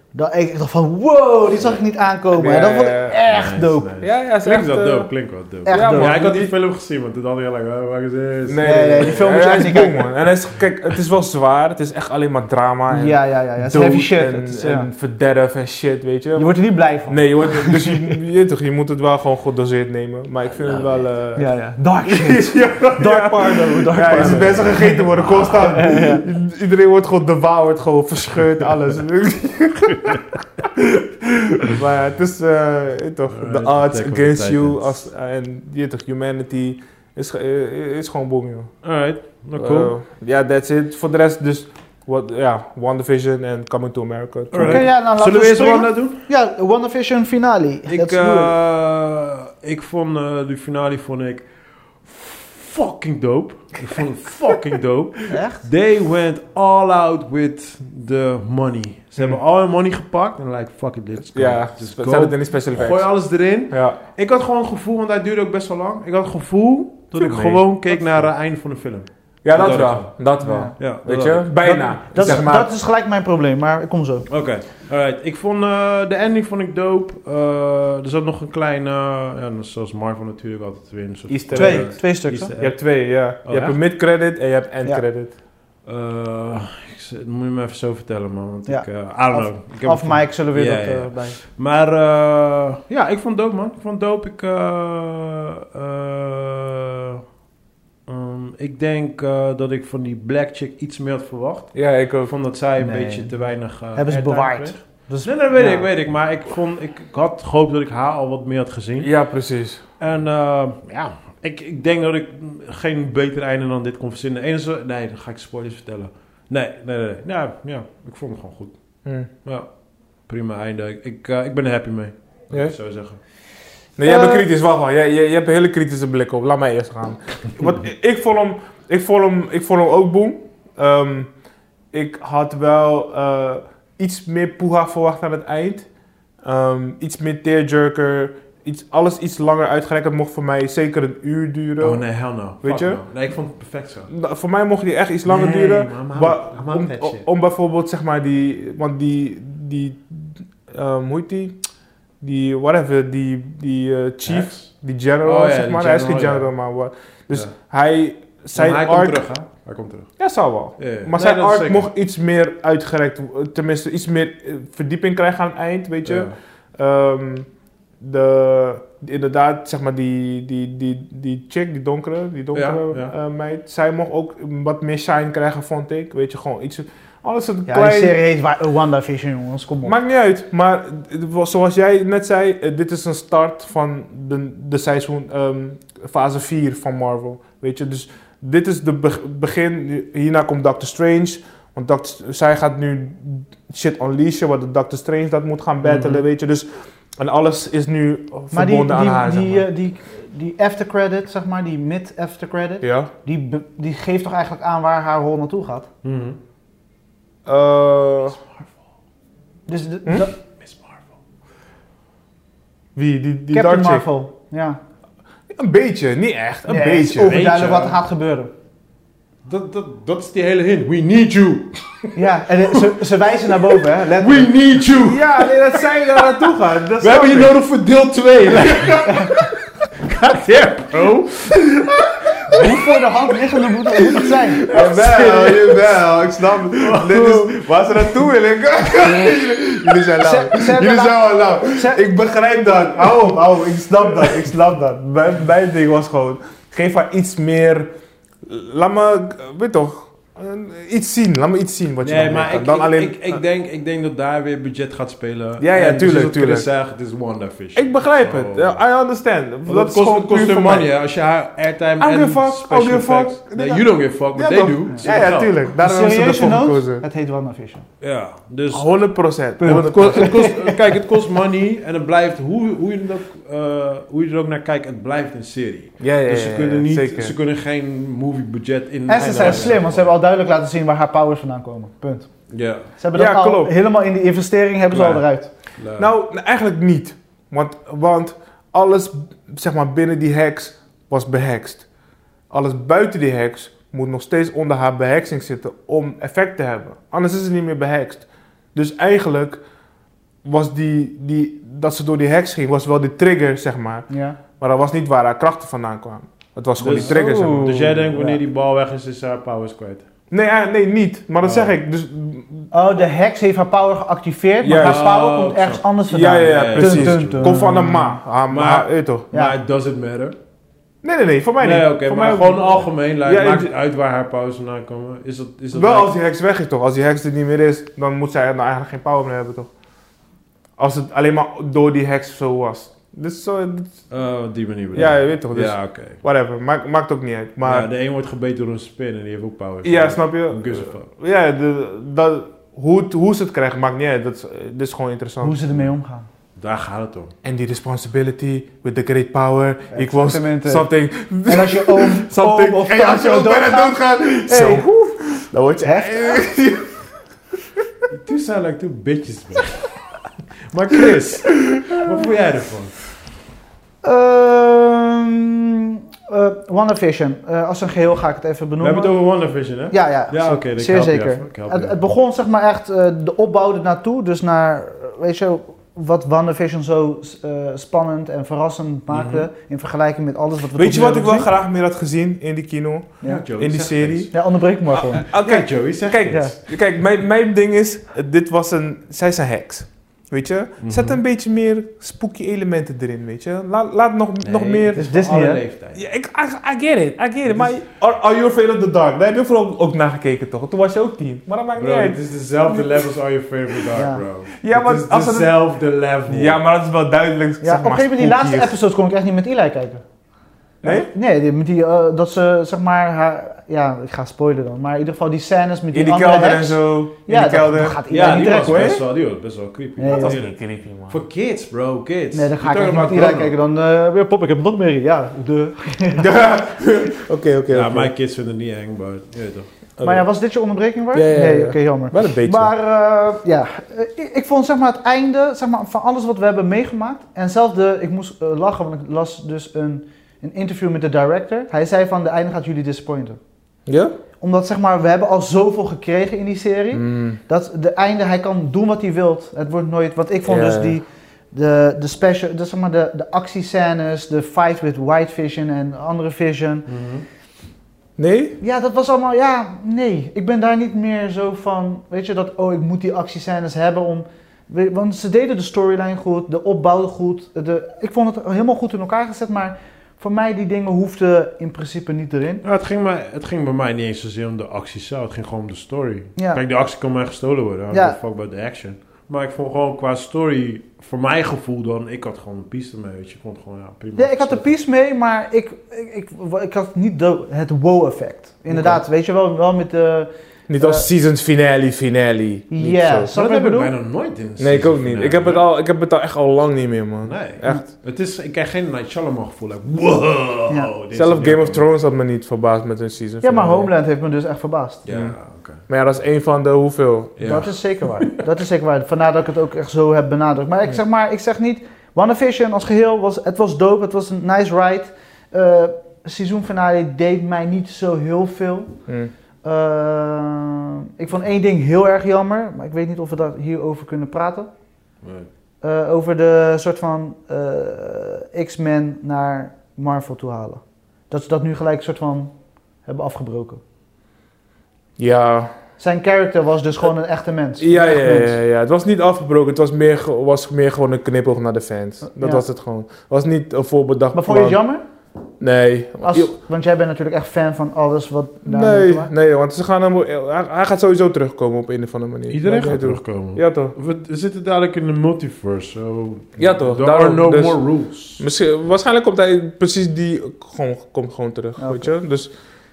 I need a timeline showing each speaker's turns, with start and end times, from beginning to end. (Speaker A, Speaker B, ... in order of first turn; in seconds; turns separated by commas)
Speaker A: 0.1-3.9, Speaker B: 2.3-3.2, Speaker C: 3.3-9.2, Speaker B: 4.0-6.5, Speaker A: 5.7-6.1, Speaker B: 8.4-38.8, Speaker A: 8.6-10.1, Speaker A: 12.9-14.9, Speaker A: 16.4-18.2, Speaker C: 20.6-21.1, Speaker A: 21.4-26.2, Speaker C: 24.2-24.7, Speaker C: 33.3-34.9, Speaker C: 38.8-39.9, Speaker B: 39.5-44.9, Speaker C: 44.5-46.2, Speaker A: 44.6-48.5, Speaker C: 47.9-51.5, Speaker C: 52.0-71.6, Speaker A: 55.3-55.6, Speaker B: 61.3-64.0, Speaker B: 67.1-68.2, Speaker B: 69.4-72.7, Speaker A: 70.4-70.8, Speaker A: 71.6-74.3, Speaker C: 72.1-72.5, Speaker C: 74.3-83.8, Speaker B: 81.3-85.3, Speaker A: 81.5-82.5, Speaker C: 85.8-97.2, Speaker A: 88.7-91.4, Speaker C: 98.0-109.1, Speaker B: 101.7-102.3, Speaker A: 102.8-105.8, Speaker B: 109.0-109.8, Speaker C: 110.0-118.8, Speaker B: 119.0-119.3, Speaker C: 119.4-119.7, Speaker C: 120.2-123.2, Speaker B: 124.0-131.3, Speaker A: 124.0-124.5, Speaker B: 131.9-135.9, Speaker B: 136.4-143.0, Speaker C: 141.8-144.1, Speaker B: 144.1-151.6, Speaker C: 145.2-147.2, Speaker B: 152.2-159.3, Speaker C: 154.2-154.7, Speaker C: 155.2-156.5, Speaker C: 158.5-160.2, Speaker B: 160.2-167.5, Speaker C: 160.8-161.9, Speaker C: 166.0-166.3, Speaker B: 168.0-178.1, Speaker C: 172.5-173.1, Speaker A: 177.7-179.9, Speaker B: 179.8-199.7, Speaker C: 195.8-196.2, Speaker A: 198.5-205.9, Speaker B: 202.8-203.1, Speaker C: 206.0-206.4, Speaker B: 207.4-208.4, Speaker C: 208.3-208.7, Speaker A: 209.7-210.3, Speaker C: 210.6-211.0, Speaker B: 212.9-214.0, Speaker A: 213.5-214.8, Speaker B: 215.5-217.4, Speaker A: 216.7-218.5, Speaker C: 217.1-218.0, Speaker C: 219.4-222.9, Speaker A: 222.1-224.5, Speaker C: 223.7-229.3, Speaker B: 224.9-227.6, Speaker B: 228.7-228.9, Speaker C: 229.9-231.9, Speaker A: 232.5-234.8, Speaker C: 234.1-235.8, Speaker B: 234.7-247.9, Speaker C: 236.7-237.6, Speaker A: 240.2-242.0, Speaker B: 248.4-253.4, Speaker C: 252.0-258.8, Speaker B: 255.6-256.7, Speaker B: 257.7-260.9, Speaker C: 259.6-265.5, Speaker B: 262.0-267.0, Speaker A: 265.8-267.9, Speaker C: 268.0-280.1, Speaker B: 268.7-270.6, Speaker A: 269.6-270.8, Speaker B: 276.0-277.3, Speaker A: 279.1-282.3, Speaker B: 279.2-279.7, Speaker C: 282.5-282.9, Speaker A: 282.9-285.5, Speaker B: 283.1-283.7, Speaker C: 284.9-285.2, Speaker C: 285.8-286.1, Speaker B: 285.9-291.9, Speaker B: 292.5-299.6, Speaker B: 300.4-308.0, Speaker A: 304.1-304.4, Speaker C: 306.8-310.1, Speaker A: 307.0-308.4, Speaker B: 310.3-312.7, Speaker C: 311.4-311.7, Speaker A: 312.7-318.2, Speaker B: 314.6-319.3, Speaker C: 314.7-315.8, Speaker C: 316.4-317.6, Speaker C: 318.5-320.4, Speaker B: 321.0-323.7, Speaker C: 321.6-326.1, Speaker B: 325.7-329.7, Speaker B: 330.8-334.0, Speaker C: 334.1-336.2, Speaker B: 334.9-337.9, Speaker C: 337.6-341.1, Speaker B: 339.8-345.6, Speaker A: 345.4-346.3, Speaker C: 346.6-347.3, Speaker B: 347.4-357.0, Speaker A: 349.9-350.9, Speaker A: 351.4-354.9, Speaker A: 355.8-356.4, Speaker C: 358.1-359.9, Speaker C: 360.7-363.0, Speaker B: 361.6-362.1, Speaker A: 364.0-369.2, Speaker C: 368.8-372.0, Speaker A: 369.9-381.5, Speaker C: 379.1-379.5, Speaker B: 380.7-384.3, Speaker C: 383.2-384.3, Speaker A: 384.3-385.3, Speaker C: 385.0-386.6, Speaker B: 385.2-395.0, Speaker A: 386.3-386.6, Speaker C: 390.8-391.2, Speaker C: 394.4-396.0, Speaker A: 395.0-395.6, Speaker B: 395.9-402.2, Speaker C: 397.5-397.7, Speaker C: 401.8-406.6, Speaker A: 403.9-404.2, Speaker B: 404.6-405.6, Speaker B: 406.2-408.7, Speaker A: 407.6-410.0, Speaker B: 410.8-411.1, Speaker A: 410.8-418.9, Speaker B: 415.9-419.0, Speaker C: 418.1-423.5, Speaker A: 420.0-420.4, Speaker B: 420.1-421.2, Speaker A: 422.3-426.3, Speaker B: 426.1-428.1, Speaker C: 427.7-429.7, Speaker B: 430.0-430.3, Speaker A: 430.0-443.4, Speaker B: 431.1-432.7, Speaker B: 443.9-444.1, Speaker A: 444.4-456.9, Speaker B: 446.9-447.4, Speaker B: 450.4-451.0, Speaker C: 456.9-457.2, Speaker B: 458.2-458.6, Speaker A: 458.6-472.6, Speaker C: 472.6-484.7, Speaker A: 476.4-476.6, Speaker A: 477.9-478.2, Speaker A: 484.1-491.1, Speaker B: 490.7-493.3, Speaker A: 492.7-493.9, Speaker C: 493.3-495.6, Speaker B: 494.6-497.9, Speaker C: 497.2-501.9, Speaker B: 501.1-503.9, Speaker A: 503.4-505.0, Speaker C: 505.0-505.8, Speaker B: 505.1-507.6, Speaker C: 507.4-508.4, Speaker A: 507.4-519.0, Speaker A: 519.6-524.7, Speaker C: 525.2-525.5, Speaker A: 525.8-532.5, Speaker A: 533.0-533.8, Speaker B: 535.2-535.8, Speaker A: 536.0-538.6, Speaker B: 537.8-544.8, Speaker A: 542.3-542.6, Speaker A: 544.3-545.0, Speaker B: 545.6-546.5, Speaker A: 546.2-549.3, Speaker B: 548.6-553.9, Speaker C: 552.5-558.4, Speaker B: 556.6-562.5, Speaker A: 561.8-562.1